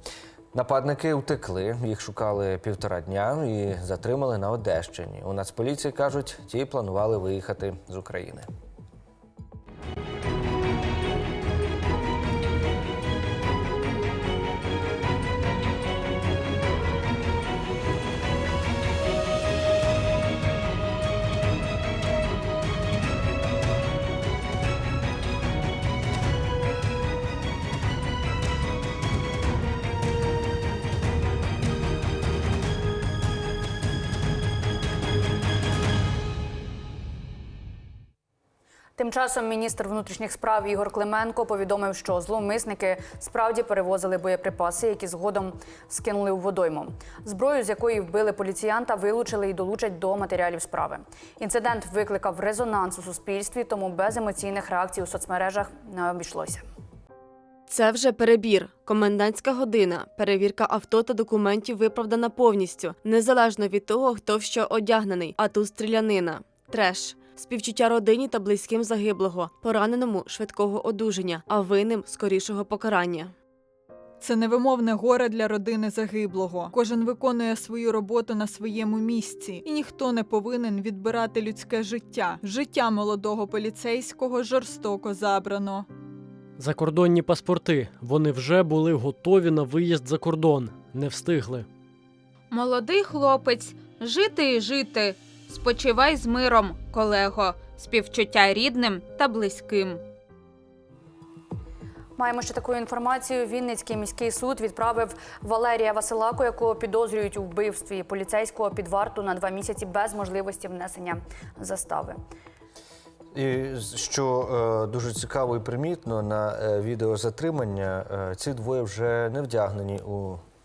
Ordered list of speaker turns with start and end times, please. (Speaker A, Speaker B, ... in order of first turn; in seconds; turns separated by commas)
Speaker A: 0.5-8.5, Speaker B: 39.0-56.6, Speaker C: 57.7-73.3, Speaker D: 74.2-85.8, Speaker E: 86.6-91.7, Speaker F: 92.5-100.0, Speaker B: 102.2-112.2, Speaker A: 113.3-120.4